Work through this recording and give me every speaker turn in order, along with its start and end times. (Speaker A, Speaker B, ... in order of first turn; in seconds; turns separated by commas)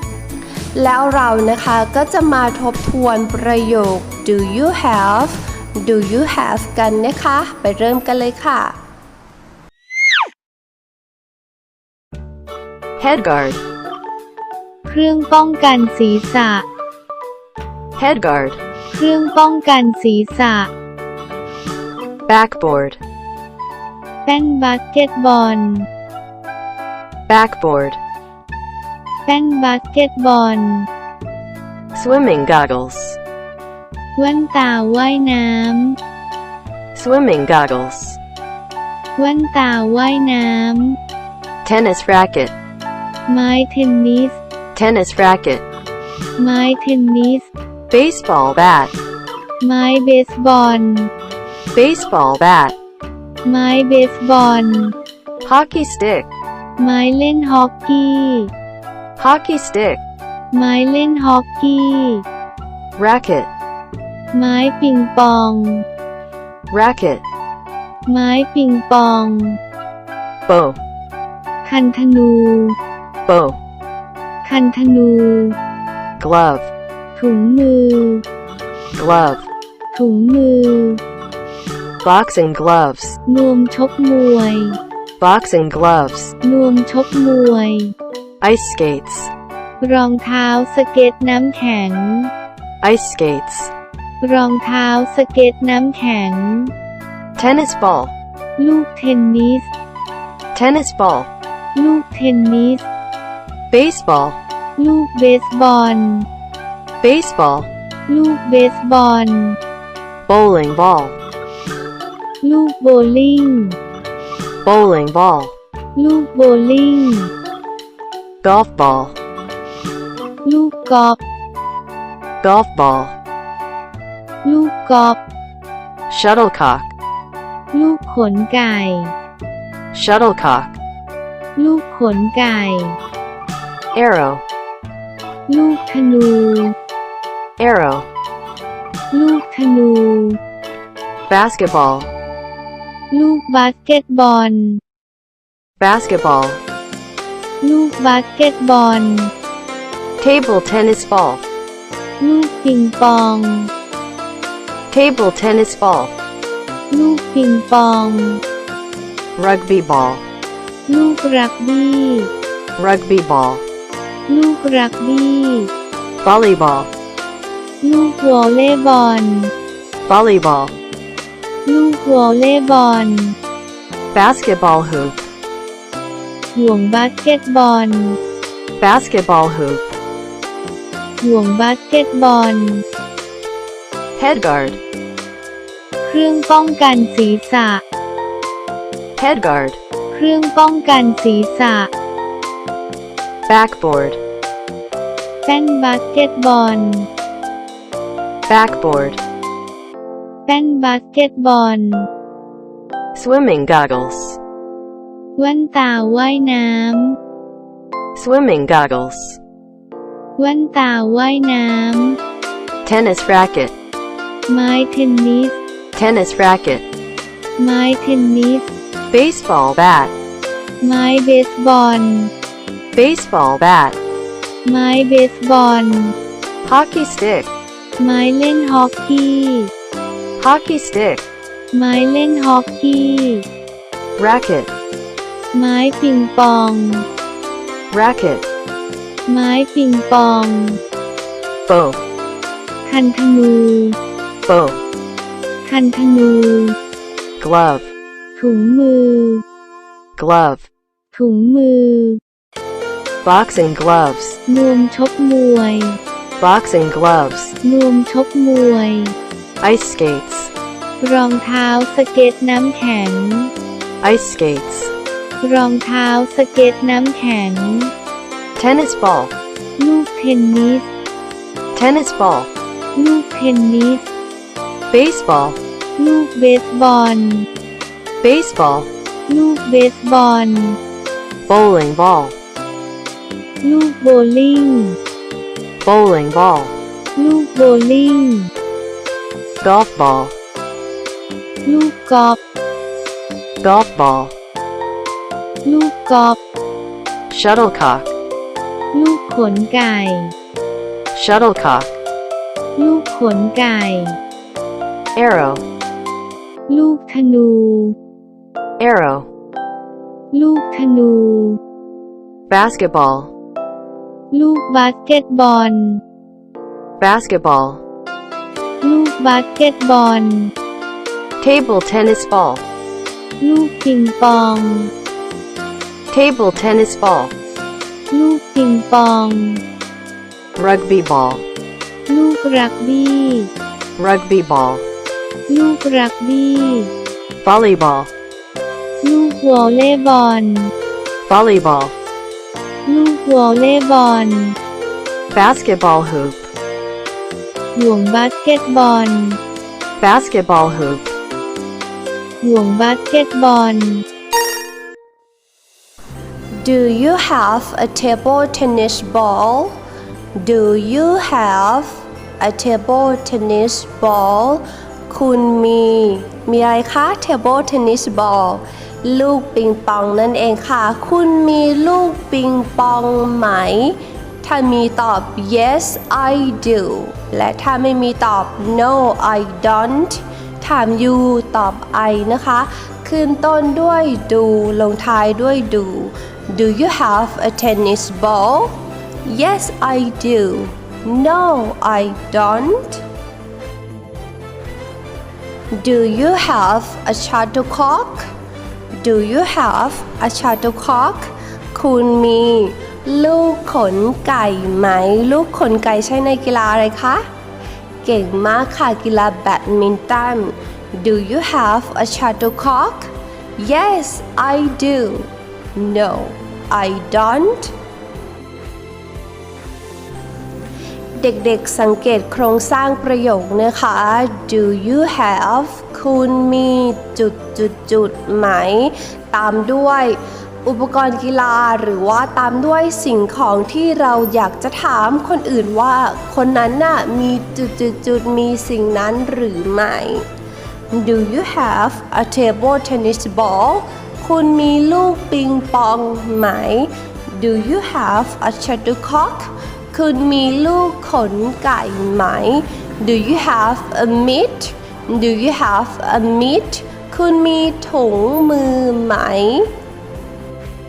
Speaker A: 0.8-8.8, Speaker B: 13.0-13.6, Speaker C: 14.9-16.6, Speaker B: 18.0-18.6, Speaker C: 18.9-20.7, Speaker B: 22.3-23.0, Speaker C: 24.2-25.9, Speaker B: 27.3-28.0, Speaker C: 29.2-30.9, Speaker B: 31.9-33.2, Speaker C: 34.1-36.0, Speaker B: 36.9-38.2, Speaker C: 39.1-41.0, Speaker B: 41.6-42.5, Speaker C: 43.3-44.4, Speaker B: 44.7-45.6, Speaker C: 46.4-47.5, Speaker B: 47.9-48.9, Speaker C: 49.6-51.1, Speaker B: 51.7-52.8, Speaker C: 53.4-54.9, Speaker B: 55.4-56.3, Speaker C: 56.8-58.5, Speaker B: 59.2-60.0, Speaker C: 60.5-62.2, Speaker B: 63.0-63.5, Speaker C: 64.3-65.8, Speaker B: 66.7-67.2, Speaker C: 68.1-69.6, Speaker B: 70.5-70.8, Speaker C: 71.6-72.8, Speaker B: 73.2-73.6, Speaker C: 74.4-75.5, Speaker B: 76.2-76.7, Speaker C: 77.2-78.2, Speaker B: 79.0-79.5, Speaker C: 79.9-81.0, Speaker B: 82.0-83.2, Speaker C: 83.2-84.8, Speaker B: 85.2-86.3, Speaker C: 86.4-87.9, Speaker B: 88.4-89.3, Speaker C: 89.8-92.3, Speaker B: 92.8-93.7, Speaker C: 94.2-96.7, Speaker B: 97.4-98.1, Speaker C: 98.6-99.7, Speaker B: 100.5-101.3, Speaker C: 101.7-102.9, Speaker B: 103.7-104.4, Speaker C: 104.8-106.3, Speaker B: 107.0-107.7, Speaker C: 108.1-109.6, Speaker B: 110.3-111.2, Speaker C: 112.4-113.8, Speaker B: 114.6-115.5, Speaker C: 116.0-117.3, Speaker B: 118.4-119.2, Speaker C: 120.4-121.2, Speaker B: 122.4-123.1, Speaker C: 124.4-125.2, Speaker B: 126.1-126.9, Speaker C: 127.7-129.1, Speaker B: 129.9-130.8, Speaker C: 131.6-133.0, Speaker B: 133.9-134.4, Speaker C: 135.5-136.7, Speaker B: 137.6-138.1, Speaker C: 139.1-140.4, Speaker B: 141.3-142.1, Speaker C: 143.1-144.8, Speaker B: 145.8-146.6, Speaker C: 147.6-149.3, Speaker B: 150.2-151.4, Speaker C: 152.2-153.7, Speaker B: 154.9-156.1, Speaker C: 156.9-158.4, Speaker B: 159.3-160.2, Speaker C: 160.9-162.3, Speaker B: 162.8-163.6, Speaker C: 164.3-165.7, Speaker B: 166.2-166.9, Speaker C: 167.8-169.5, Speaker B: 170.1-170.8, Speaker C: 171.7-173.3, Speaker B: 174.1-175.3, Speaker C: 176.5-178.2, Speaker B: 178.8-179.9, Speaker C: 181.2-182.8, Speaker B: 184.2-184.8, Speaker C: 186.0-187.8, Speaker B: 189.2-189.8, Speaker C: 190.1-191.9, Speaker B: 193.5-194.2, Speaker C: 195.4-197.1, Speaker B: 198.5-199.2, Speaker C: 200.5-202.1, Speaker B: 203.1-204.4, Speaker C: 205.4-207.2, Speaker B: 208.1-209.4, Speaker C: 210.4-212.2, Speaker B: 212.8-213.7, Speaker C: 214.5-215.6, Speaker B: 215.9-216.8, Speaker C: 217.6-218.7, Speaker B: 219.1-220.1, Speaker C: 220.8-222.3, Speaker B: 222.9-224.0, Speaker C: 224.7-226.1, Speaker B: 226.6-227.5, Speaker C: 228.0-229.7, Speaker B: 230.4-231.2, Speaker C: 231.7-233.4, Speaker B: 234.2-234.7, Speaker C: 235.5-237.0, Speaker B: 237.9-238.5, Speaker C: 239.3-240.8, Speaker B: 241.7-242.0, Speaker C: 242.8-244.0, Speaker B: 244.4-244.8, Speaker C: 245.7-246.8, Speaker B: 247.4-247.9, Speaker C: 248.4-249.4, Speaker B: 250.2-250.7, Speaker C: 251.1-252.2, Speaker B: 253.2-254.4, Speaker C: 254.4-256.0, Speaker B: 256.4-257.6, Speaker C: 257.6-259.1, Speaker B: 259.6-260.5, Speaker C: 261.0-263.5, Speaker B: 264.0-264.9, Speaker C: 265.4-267.9, Speaker B: 268.6-269.3, Speaker C: 269.8-270.9, Speaker B: 271.7-272.5, Speaker C: 272.9-274.1, Speaker B: 274.9-275.6, Speaker C: 276.0-277.5, Speaker B: 278.2-278.9, Speaker C: 279.3-280.8, Speaker B: 281.5-282.4, Speaker C: 283.6-285.0, Speaker B: 285.8-286.7, Speaker C: 287.1-288.5, Speaker B: 289.6-290.4, Speaker C: 291.6-292.4, Speaker B: 293.6-294.3, Speaker C: 295.6-296.4, Speaker B: 297.3-298.1, Speaker C: 298.9-300.3, Speaker B: 301.1-301.9, Speaker C: 302.8-304.2, Speaker B: 305.1-305.6, Speaker C: 306.7-307.9, Speaker B: 308.8-309.3, Speaker C: 310.3-311.6, Speaker B: 312.5-313.3, Speaker C: 314.3-316.0, Speaker B: 317.0-317.8, Speaker C: 318.8-320.5, Speaker B: 321.4-322.6, Speaker C: 323.4-324.9, Speaker B: 326.1-327.3, Speaker C: 328.1-329.6, Speaker B: 330.6-331.4, Speaker C: 332.1-333.5, Speaker B: 334.0-334.9, Speaker C: 335.5-336.9, Speaker B: 337.4-338.1, Speaker C: 339.0-340.7, Speaker B: 341.2-341.9, Speaker C: 342.9-344.6, Speaker B: 345.3-346.5, Speaker C: 347.8-349.4, Speaker B: 350.0-351.1, Speaker C: 352.4-354.0, Speaker A: 356.6-359.8, Speaker A: 360.4-393.0, Speaker A: 395.7-398.3, Speaker A: 399.0-407.2, Speaker A: 408.0-417.7, Speaker A: 421.2-440.2, Speaker A: 440.9-459.7